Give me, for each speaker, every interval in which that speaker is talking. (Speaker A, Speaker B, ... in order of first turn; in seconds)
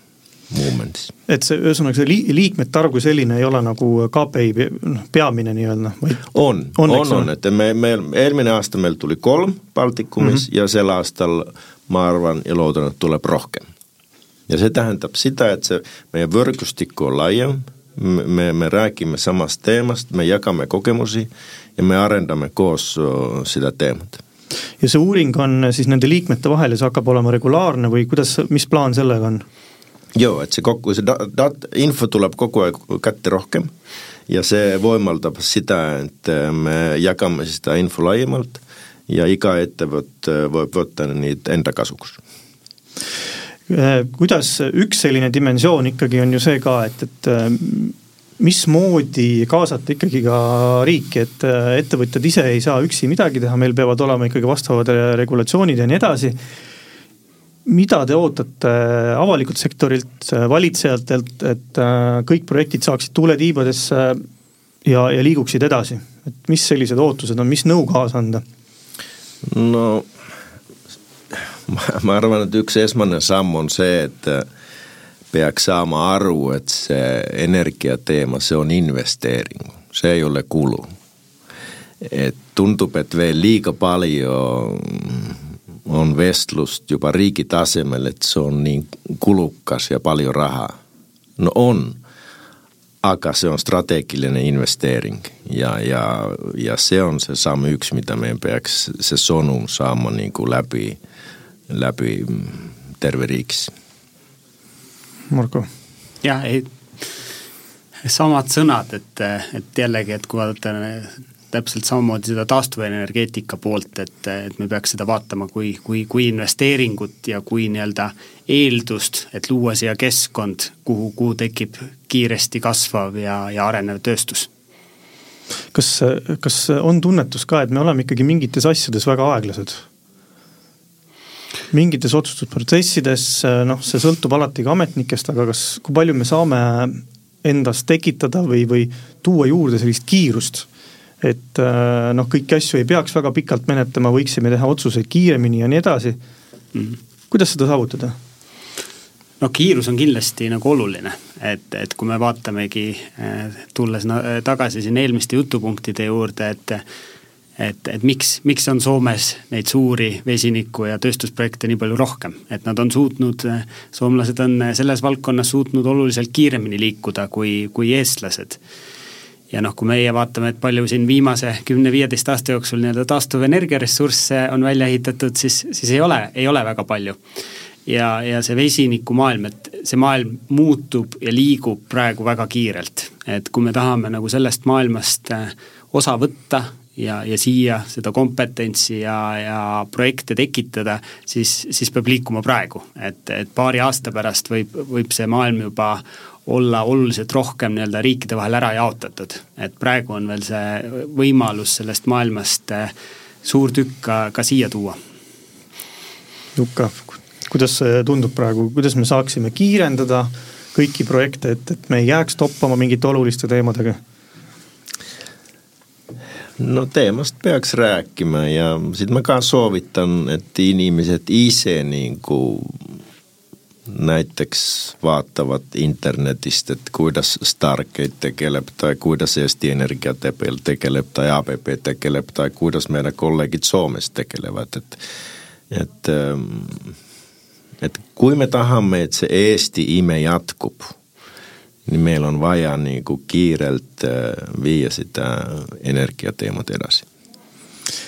Speaker A: 0.5-1.1, 6.3-13.7, 14.5-24.2, 30.1-33.7, 34.3-42.2, 69.4-70.1, 71.3-74.5, 75.3-80.9, 82.0-90.8, 91.4-92.0, 93.0-101.0, 101.7-103.7, 216.6-222.9, 223.9-235.0, 235.7-236.9, 237.8-240.9, 241.9-247.1
Speaker B: 1.3-6.2, 6.8-7.3, 24.8-29.4, 43.7-56.4, 57.6-64.2, 64.8-68.4, 105.3-105.7, 125.7-129.8, 131.7-140.7, 141.2-146.2, 147.3-148.1, 206.6-214.0
Speaker C: 106.2-106.7, 108.0-124.5, 149.4-156.8, 157.6-168.6, 169.5-177.2, 177.9-202.9, 203.4-205.0